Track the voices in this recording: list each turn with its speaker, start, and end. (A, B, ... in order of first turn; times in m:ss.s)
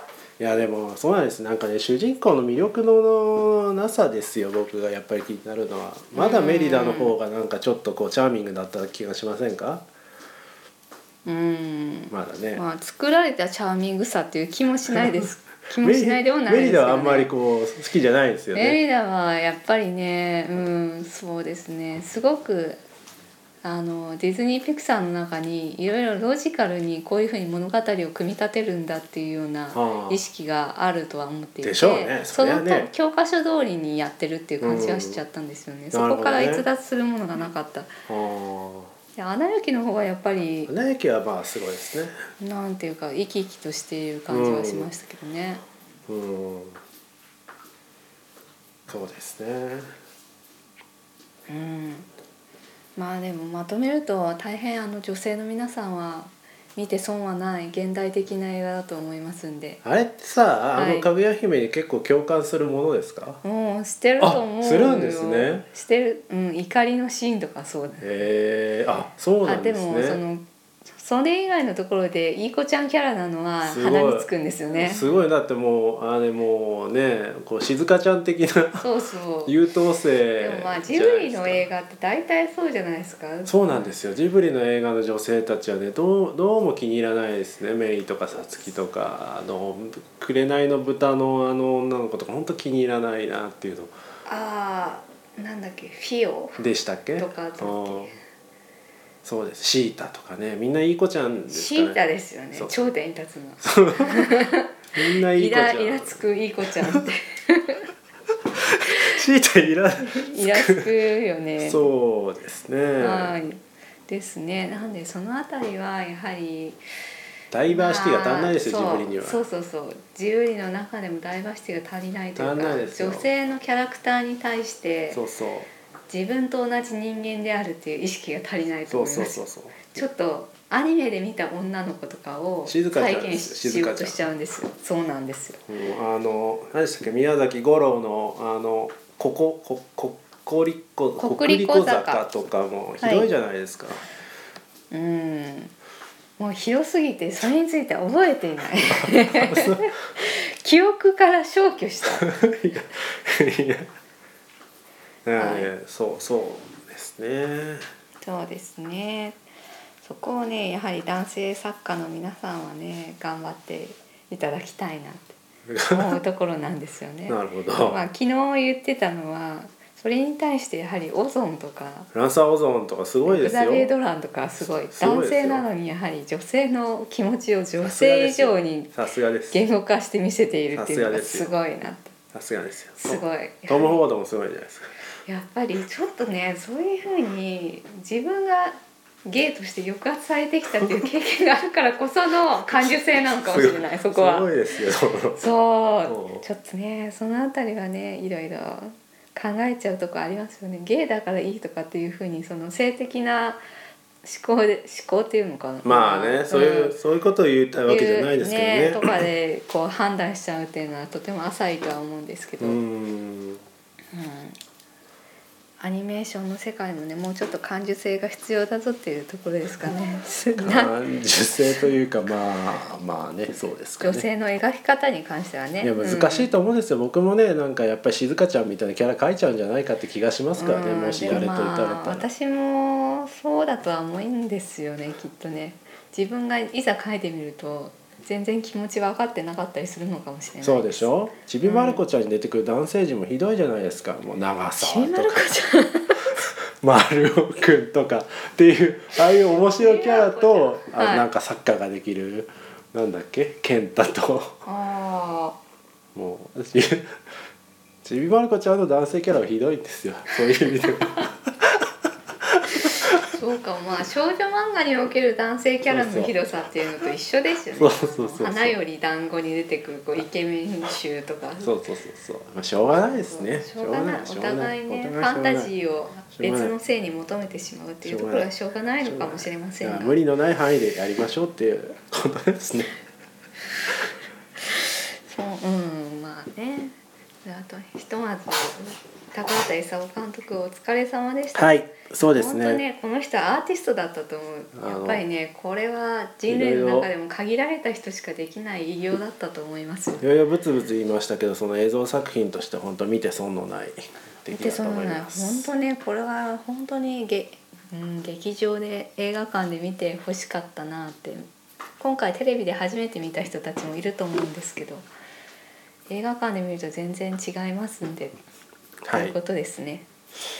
0:00.4-0:09.8 A
0:06.1-0:07.2 B
0:11.2-0:17.3 B
0:12.1-0:12.6 A
0:15.8-0:18.8 A
0:18.5-0:22.8 B
0:23.6-0:37.9 B
0:29.7-0:30.2 A
0:31.6-0:32.9 A
0:34.6-0:35.2 A
0:35.9-0:36.7 A
0:38.1-0:38.9 A
0:39.2-0:40.7 B
0:40.7-0:42.1 A
0:42.4-0:45.6 B
0:44.3-0:44.9 A
0:46.1-0:46.8 A
0:48.9-0:49.9 A
0:51.5-0:52.1 B
0:53.0-0:59.8 B
0:59.8-1:03.4 A
1:00.8-1:01.1 B
1:03.4-1:08.1 B
1:04.2-1:05.6 A
1:08.0-1:10.2 A
1:09.4-1:15.1 B
1:13.6-1:14.3 A
1:14.8-1:18.9 A
1:18.8-1:19.5 B
1:19.4-1:21.7 A
1:20.4-1:23.8 B
1:23.4-1:33.9 A
1:34.3-1:36.6 B
1:36.6-1:38.1 A
1:37.2-1:38.1 B
1:39.2-1:42.0 A
1:41.5-1:47.9 B
1:42.5-1:42.8 A
1:43.6-1:46.2 A
1:46.8-1:47.1 A
1:48.6-1:50.9 A
1:48.8-1:49.2 B
1:50.1-1:51.8 B
1:51.6-1:53.4 A
1:53.0-1:56.8 B
1:57.5-1:59.4 A
1:57.7-2:05.2 B
2:02.4-2:03.3 A
2:05.1-2:05.7 A
2:06.1-2:15.6 B
2:08.9-2:10.0 A
2:12.7-2:14.3 A
2:15.7-2:24.0 A
2:21.2-2:22.2 B
2:23.0-2:23.3 B
2:24.9-2:25.7 B
2:26.4-2:32.3 B
2:28.9-2:29.9 A
2:32.2-2:33.9 A
2:35.2-2:37.9 A
2:35.4-2:35.7 B
2:38.2-2:39.4 B
2:40.0-2:45.4 B
2:45.7-2:46.2 A
2:45.9-2:52.1 B
2:47.3-2:48.0 A
2:52.1-2:53.9 A
2:53.3-2:58.9 B
2:54.9-2:55.7 A
2:57.8-2:59.6 A
2:59.5-3:02.2 B
3:00.8-3:01.5 A
3:02.3-3:04.9 A
3:03.0-3:04.0 B
3:05.3-3:14.5 B
3:13.5-3:15.4 A
3:15.4-3:23.6 B
3:16.1-3:16.4 A
3:24.2-3:27.0 B
3:25.8-3:29.1 A
3:27.9-3:32.8 B
3:32.6-3:33.6 A
3:34.1-3:34.6 B
3:35.8-3:41.0 B
3:40.6-3:44.3 A
3:44.0-3:46.5 B
3:45.8-3:52.2 A
3:50.6-4:01.1 B
4:00.6-4:05.5 A
4:01.6-4:02.0 B
4:04.8-4:06.4 B
4:06.3-4:14.6 A
4:09.8-4:11.3 B
4:14.6-4:15.6 B
4:16.2-4:17.2 A
4:18.0-4:21.9 A
4:22.4-4:23.3 A
4:23.2-4:31.7 B
4:25.9-4:26.3 A
4:27.8-4:28.8 A
4:31.6-4:35.7 A
4:33.0-4:40.2 B
4:36.4-4:36.7 A
4:38.0-4:38.5 A
4:39.0-4:43.0 A
4:44.6-5:00.2 B
4:51.6-4:52.8 A
4:54.7-4:55.2 A
4:56.5-4:57.1 A
5:00.2-5:05.7 A
5:04.5-5:11.5 B
5:12.0-5:15.1 B
5:16.1-5:18.4 B
5:19.0-5:19.4 A
5:19.1-5:20.1 B